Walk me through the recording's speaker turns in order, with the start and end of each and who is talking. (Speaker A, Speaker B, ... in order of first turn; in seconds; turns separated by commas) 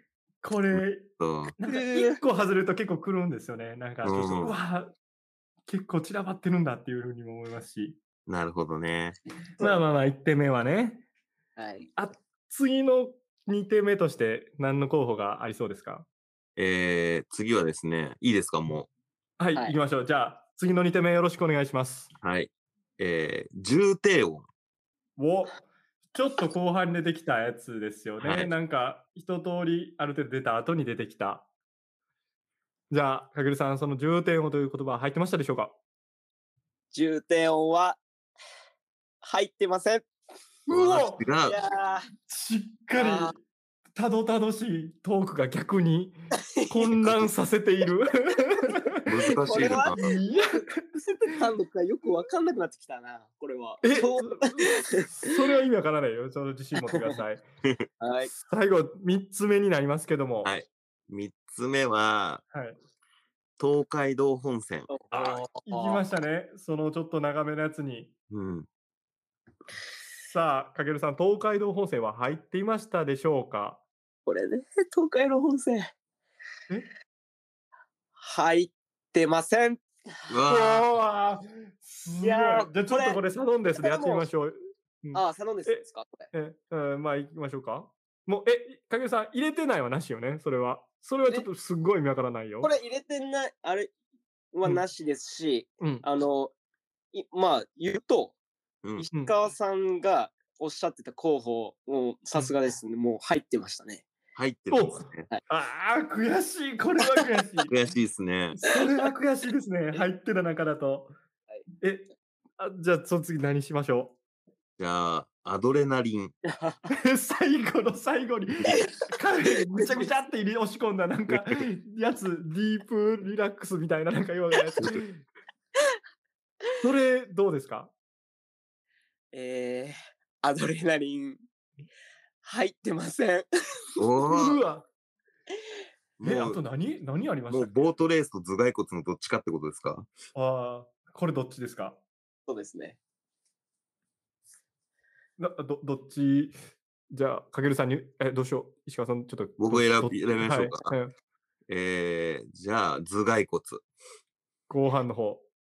Speaker A: 0.4-4.9, Speaker B: 0.8-1.5, Speaker C: 1.7-2.2, Speaker B: 4.0-4.5, Speaker A: 5.7-8.0, Speaker B: 8.2-9.2, Speaker A: 9.6-11.1, Speaker C: 11.6-11.9, Speaker A: 11.9-16.1, Speaker B: 16.6-18.9, Speaker A: 19.4-22.1, Speaker B: 22.2-24.4, Speaker A: 25.2-25.6, Speaker A: 26.1-31.5, Speaker B: 28.2-28.5, Speaker A: 32.9-35.7, Speaker C: 36.9-38.0, Speaker C: 39.2-40.0, Speaker A: 40.7-41.2, Speaker B: 40.7-41.5, Speaker C: 41.5-42.1, Speaker A: 42.3-43.4, Speaker C: 42.9-43.3, Speaker A: 44.0-46.1, Speaker C: 46.5-46.9, Speaker A: 46.7-49.1, Speaker B: 47.0-47.3, Speaker B: 49.0-50.1, Speaker C: 49.4-55.3, Speaker A: 49.7-50.8, Speaker A: 53.8-57.4, Speaker C: 56.8-57.2, Speaker C: 58.0-58.3, Speaker A: 58.3-60.5, Speaker B: 60.4-62.4, Speaker A: 62.5-62.8, Speaker B: 63.6-64.9, Speaker C: 64.9-66.0, Speaker A: 65.1-68.1, Speaker B: 68.3-68.7, Speaker A: 70.2-73.8, Speaker C: 74.2-75.9, Speaker C: 78.2-79.8, Speaker B: 80.3-80.8, Speaker A: 80.5-92.7, Speaker C: 82.2-83.2, Speaker C: 83.7-84.3, Speaker C: 85.1-86.3, Speaker C: 92.6-93.9, Speaker C: 94.5-96.5, Speaker C: 97.1-98.4, Speaker B: 98.8-99.1, Speaker C: 99.0-104.1, Speaker B: 104.3-105.2, Speaker A: 104.7-107.7, Speaker B: 107.7-108.6, Speaker A: 108.5-111.1, Speaker A: 111.8-114.2, Speaker B: 114.8-116.3, Speaker C: 116.5-116.8, Speaker A: 116.9-125.2, Speaker C: 119.7-120.1, Speaker A: 126.8-127.9, Speaker C: 129.3-131.4, Speaker C: 132.4-133.5, Speaker B: 134.0-134.6, Speaker A: 134.3-134.9, Speaker B: 136.2-136.6, Speaker A: 136.2-137.9, Speaker B: 137.5-140.1, Speaker A: 140.3-142.0, Speaker C: 142.5-143.0, Speaker A: 145.4-146.6, Speaker A: 147.1-151.1, Speaker B: 149.6-150.9, Speaker B: 151.7-153.8, Speaker A: 154.7-155.4